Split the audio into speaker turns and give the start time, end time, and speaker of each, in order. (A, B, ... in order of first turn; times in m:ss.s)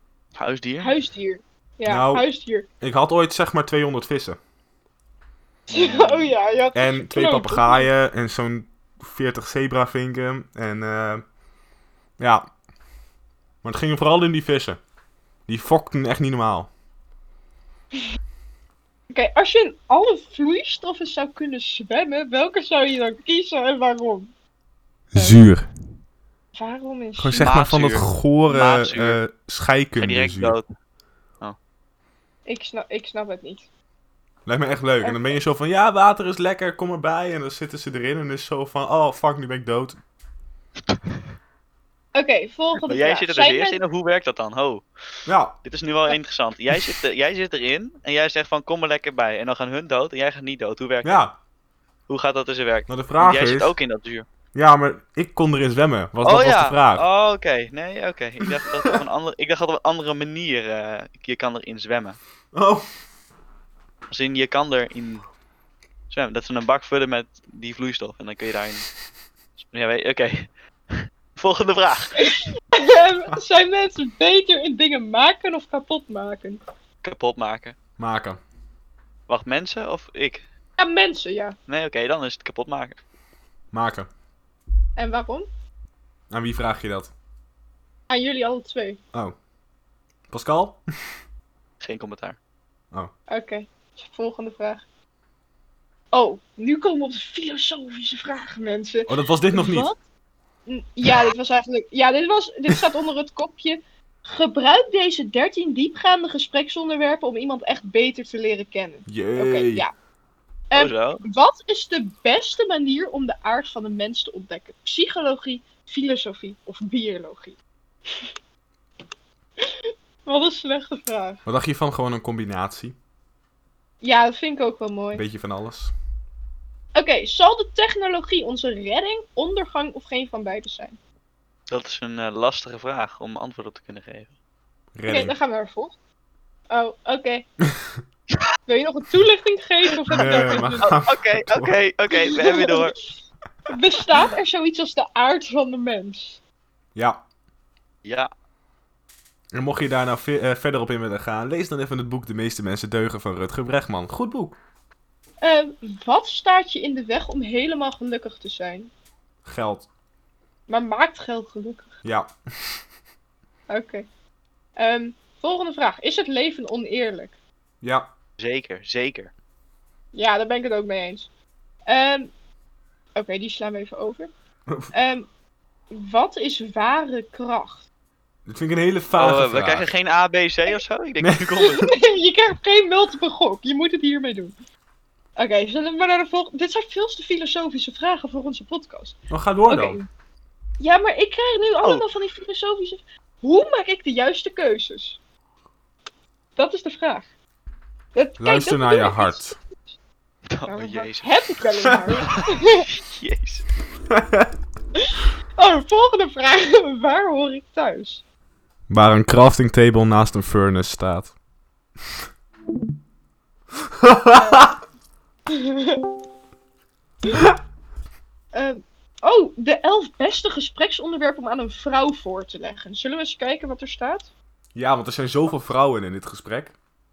0:00.4-0:00.9 A
0:00.8-0:02.7 B
0:01.9-0:02.3 C
0:02.8-0:04.4 C
0:05.7-0:06.3 A
0:05.7-0:07.9 B
0:06.7-0:11.2 C
0:12.2-0:12.5 C
0:13.6-0:14.8 C
0:15.5-0:16.7 C
0:19.1-0:24.3 B
0:25.1-0:25.7 C
0:25.2-0:25.5 B
0:26.6-0:27.6 B
0:27.2-0:30.6 C
0:27.4-0:29.2 A
0:30.0-0:30.7 A
0:32.5-0:33.7 B
0:34.5-0:40.0 C
0:35.0-0:35.4 B
0:42.2-0:43.8 B
0:42.8-0:44.8 A
0:45.3-0:45.6 C
0:45.6-0:51.2 A
0:51.0-0:51.4 C
0:52.1-0:54.3 A
0:52.9-0:53.7 C
0:54.5-0:57.0 C
0:56.2-1:02.2 A
0:58.6-0:59.0 C
1:02.5-1:02.9 C
1:04.1-1:05.2 A
1:06.1-1:08.9 A
1:09.6-1:12.3 A
1:12.2-1:16.6 B
1:17.0-1:17.8 A
1:18.0-1:18.4 C
1:19.3-1:20.4 A
1:20.8-1:21.6 B
1:21.7-1:23.0 A
1:23.7-1:24.1 C
1:25.0-1:25.5 B
1:26.3-1:27.1 C
1:28.1-1:29.0 B
1:30.3-1:30.8 C
1:31.8-1:32.4 A
1:33.3-1:34.8 B
1:36.1-1:40.0 B
1:39.1-1:39.9 C
1:40.7-1:49.9 B
1:49.1-1:49.9 C
1:50.7-1:57.6 B
1:50.7-1:51.2 A
2:00.2-2:01.4 B
2:01.5-2:03.0 C
2:04.0-2:05.2 B
2:05.1-2:05.9 C
2:07.0-2:11.0 B
2:11.7-2:14.3 A
2:15.0-2:15.4 C
2:15.1-2:16.0 B
2:16.7-2:17.5 B
2:18.7-2:21.0 B
2:20.2-2:21.8 C
2:20.2-2:23.0 A
2:22.1-2:22.9 B
2:23.7-2:26.4 B
2:27.0-2:27.2 C
2:28.0-2:28.3 A
2:29.5-2:34.6 C
2:35.4-2:38.9 B
2:39.4-2:39.9 C
2:40.7-2:41.9 B
2:42.0-2:42.3 C
2:43.7-2:44.1 B
2:44.8-2:47.4 B
2:47.8-2:48.1 C
2:48.4-2:49.3 A
2:50.1-2:51.3 B
2:51.9-2:52.3 B
2:53.2-2:54.3 B
2:54.9-2:55.3 B
2:55.9-2:57.8 B
2:58.5-2:59.9 C
2:59.1-3:02.0 A
3:01.2-3:01.5 C
3:01.6-3:04.6 B
3:05.4-3:10.1 B
3:09.3-3:10.0 C
3:10.8-3:15.2 B
3:16.6-3:17.2 B
3:18.2-3:19.5 B
3:18.4-3:19.6 C
3:20.5-3:21.4 A
3:20.7-3:22.8 B
3:22.2-3:23.7 A
3:24.1-3:24.5 C
3:25.0-3:28.2 B
3:28.9-3:31.3 C
3:33.8-3:34.7 C
3:34.3-3:34.8 B
3:35.5-3:36.1 B
3:38.5-3:44.3 B
3:44.8-3:46.7 C